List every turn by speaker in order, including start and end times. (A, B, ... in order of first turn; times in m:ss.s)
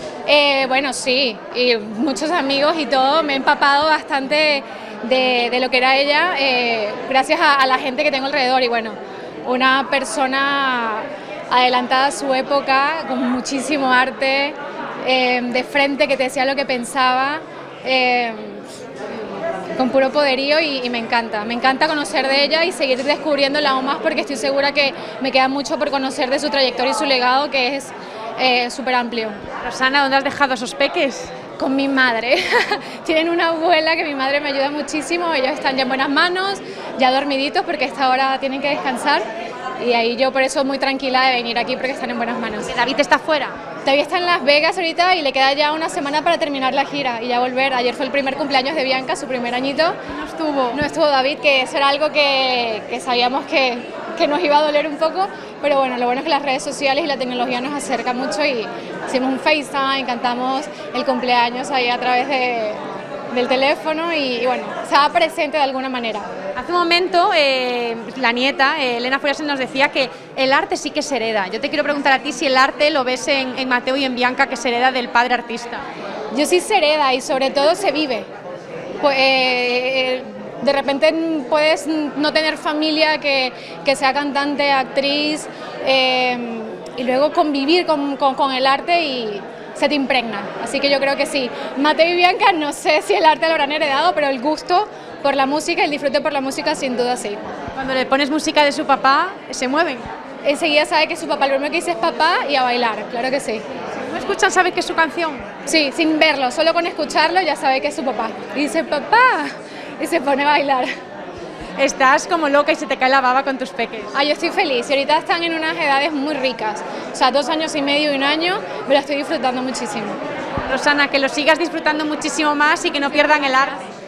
0:00.3-0:18.7 A
0:19.8-0:29.4 A
0:29.6-0:31.3 B
0:31.6-0:39.2 A
0:39.8-0:42.8 A
0:42.7-0:43.6 B
0:43.8-0:50.0 A
0:50.1-0:50.8 B
0:50.7-1:06.3 A
1:06.6-1:15.8 B
1:16.3-1:18.3 A
1:19.0-1:37.4 A
1:37.7-1:40.1 B
1:40.4-1:43.6 A
1:44.0-1:45.5 B
1:45.6-1:50.9 A
1:51.8-1:54.1 B
1:54.1-2:00.2 A
2:00.7-2:03.8 B